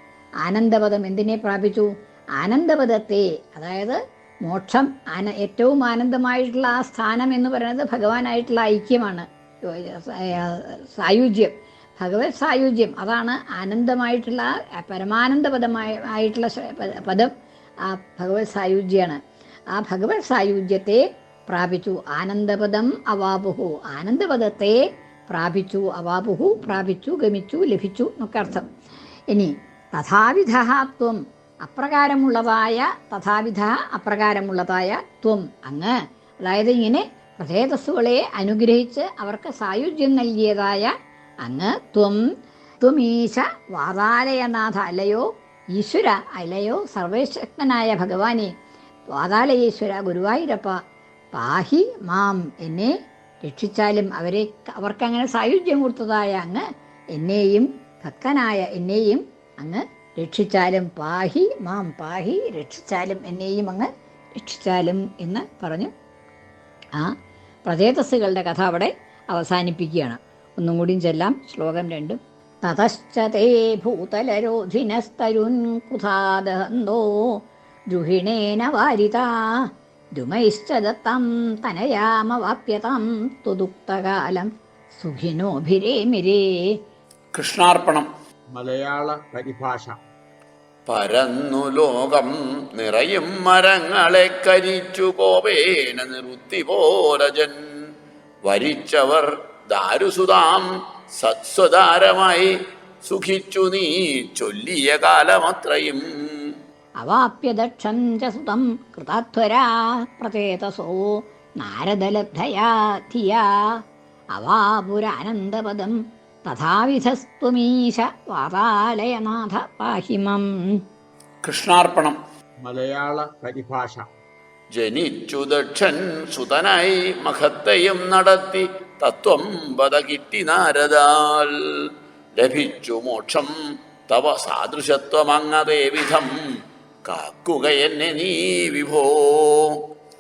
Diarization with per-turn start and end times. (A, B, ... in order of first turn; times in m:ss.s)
0:00.4-0:19.2 A
0:19.7-0:28.7 A
0:29.3-0:40.9 A
0:41.4-0:42.2 A
0:42.8-0:48.5 A
0:49.1-0:50.8 A
0:51.3-1:05.9 A
1:07.6-1:17.4 A
1:17.9-1:26.8 A
1:27.3-1:28.1 B
1:28.5-1:30.0 C
1:30.9-1:37.6 B
1:38.5-1:46.6 B
1:47.0-1:53.8 A
1:54.3-2:00.8 A
2:01.4-2:02.2 B
2:02.6-2:04.0 C
2:04.8-2:13.6 B
2:14.1-2:19.9 B